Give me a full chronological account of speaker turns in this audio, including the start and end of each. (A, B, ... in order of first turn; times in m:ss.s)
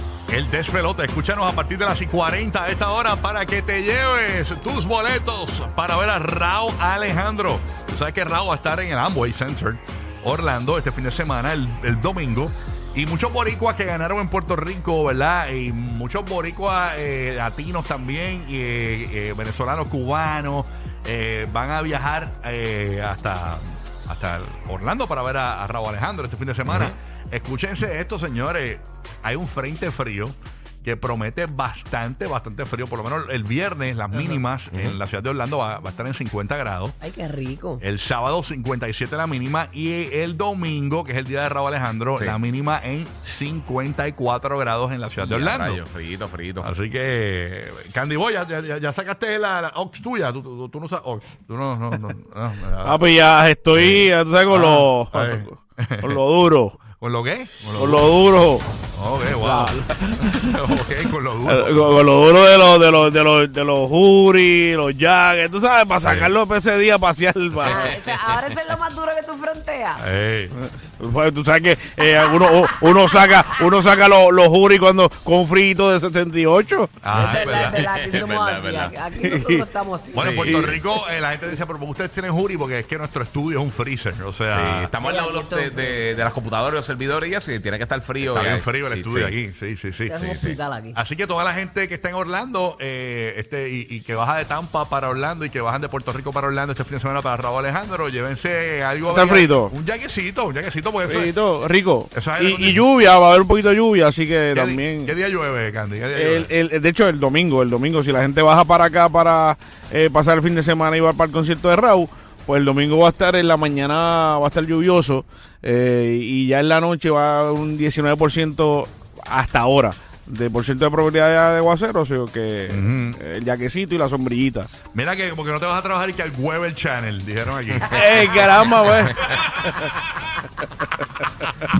0:00.3-0:37.0 A
0:26.6-0:27.0 B
0:34.1-0:35.0 B
0:37.0-0:37.8 C
0:37.8-0:45.8 A
0:45.2-0:46.7 B
0:46.6-0:53.0 A
0:52.8-0:56.8 D
0:53.7-0:56.2 A
0:56.8-0:58.1 A
0:57.8-0:58.7 D
0:58.9-1:02.0 A
0:59.4-1:00.6 D
1:01.4-1:07.9 D
1:06.0-1:06.3 B
1:07.6-1:10.0 C
1:07.7-1:08.3 B
1:10.0-1:10.5 A
1:10.6-1:16.9 D
1:12.4-1:13.0 C
1:17.0-1:17.8 A
1:17.2-1:20.7 C
1:17.4-1:18.9 B
1:19.2-1:19.6 D
1:20.1-1:24.9 A
1:20.3-1:20.8 D
1:24.5-1:29.3 B
1:25.0-1:26.0 C
1:28.2-1:30.4 A
1:30.1-1:31.0 C
1:30.2-1:30.6 B
1:30.9-1:41.3 A
1:39.1-1:39.7 D
1:41.0-1:45.1 D
1:42.1-1:42.8 A
1:44.5-1:46.5 A
1:46.1-2:04.7 D
2:02.7-2:03.2 A
2:04.8-2:08.5 A
2:07.9-2:09.3 D